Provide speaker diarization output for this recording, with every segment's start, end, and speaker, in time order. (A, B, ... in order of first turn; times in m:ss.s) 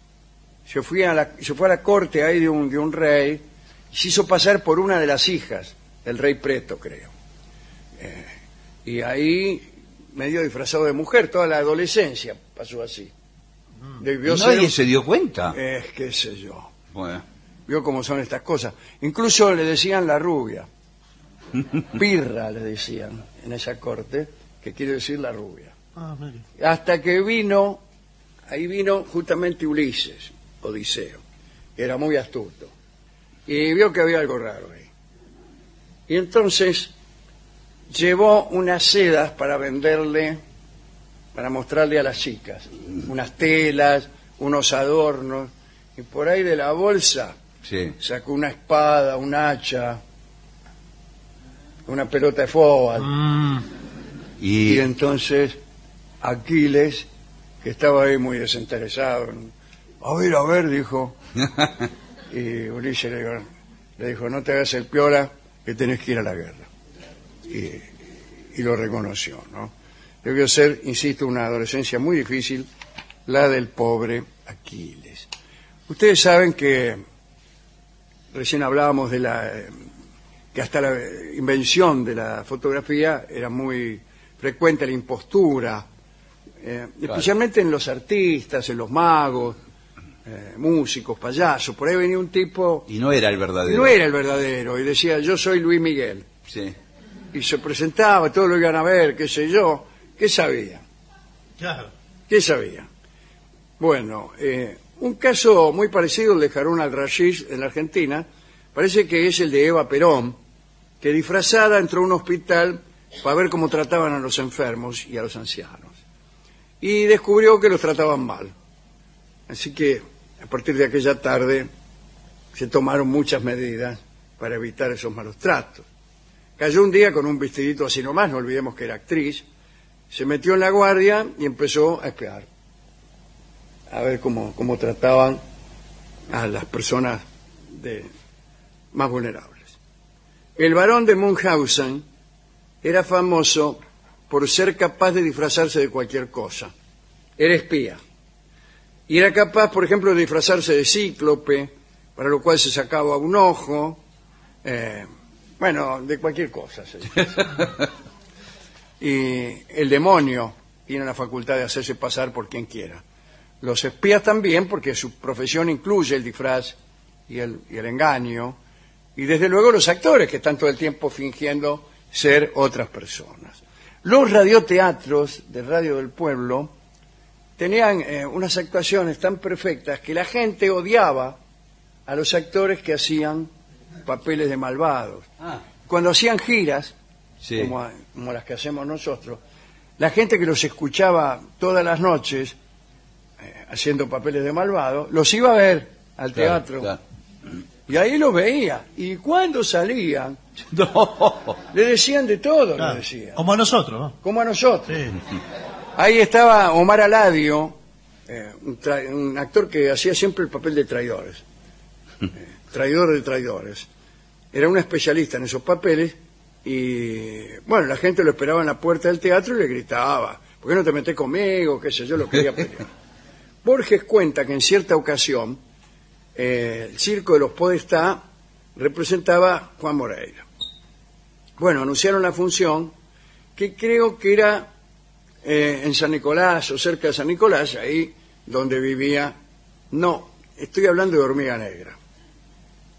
0:00.6-0:07.1 A
0:08.0-0:08.3 A
0:08.8-0:13.1 A
0:14.0-0:14.8 A
0:14.2-0:15.6 B
0:15.5-0:16.7 A
0:16.9-0:17.2 B
0:17.7-0:20.7 A
0:21.9-0:25.7 A
0:26.0-0:26.4 C
0:26.6-0:27.8 A
0:28.5-0:31.2 A
0:31.8-0:32.7 A
0:33.5-0:34.9 A
0:36.1-0:36.9 A
0:37.9-0:40.4 A
0:41.3-0:47.4 A
0:47.6-0:47.9 B
0:48.0-0:50.0 A
0:51.9-0:53.2 A
0:54.4-0:54.8 B
0:54.6-0:55.6 A
0:56.2-0:57.1 A
0:57.6-1:01.2 A
1:02.3-1:03.4 A
1:04.0-1:06.7 A
1:07.5-1:07.9 A
1:08.5-1:09.7 A
1:10.2-1:12.7 A
1:13.2-1:15.3 A
1:15.9-1:17.0 A
1:18.3-1:19.8 A
1:20.5-1:25.8 A
1:26.6-1:29.6 A
1:30.2-1:32.9 A
1:32.9-1:34.0 B
1:33.6-1:36.3 A
1:36.5-1:36.7 B
1:37.3-1:40.8 A
1:41.6-1:41.9 C
1:42.3-1:42.9 A
1:43.8-1:50.4 A
1:51.0-1:55.9 A
1:56.8-1:58.5 A
1:59.5-2:01.7 A
2:02.5-2:05.8 A
2:06.6-2:09.4 A
2:10.1-2:12.5 A
2:13.9-2:15.4 A
2:16.3-2:18.1 A
2:18.9-2:19.7 A
2:20.6-2:22.0 A
2:22.8-2:23.8 A
2:24.3-2:26.7 A
2:27.4-2:28.0 A
2:29.1-2:34.0 A
2:34.6-2:35.1 A
2:35.6-2:37.6 A
2:39.0-2:43.0 A
2:43.6-2:46.8 A
2:47.3-2:48.6 A
2:49.2-2:56.7 A
2:57.6-3:01.4 A
3:02.0-3:03.5 A
3:04.0-3:05.3 A
3:05.8-3:06.9 A
3:07.4-3:07.7 B
3:07.5-3:09.4 A
3:10.0-3:12.5 A
3:13.4-3:16.9 A
3:16.3-3:17.0 B
3:17.9-3:20.4 A
3:20.7-3:21.6 B
3:21.7-3:23.4 A
3:22.8-3:24.2 C
3:24.2-3:25.0 A
3:26.0-3:27.7 A
3:28.3-3:31.4 A
3:32.6-3:33.9 A
3:34.5-3:42.9 A
3:43.6-3:45.6 A
3:46.4-3:48.2 A
3:48.8-3:50.4 A
3:51.6-3:52.9 A
3:53.6-3:54.7 A
3:55.4-3:59.3 A
3:59.9-4:02.0 A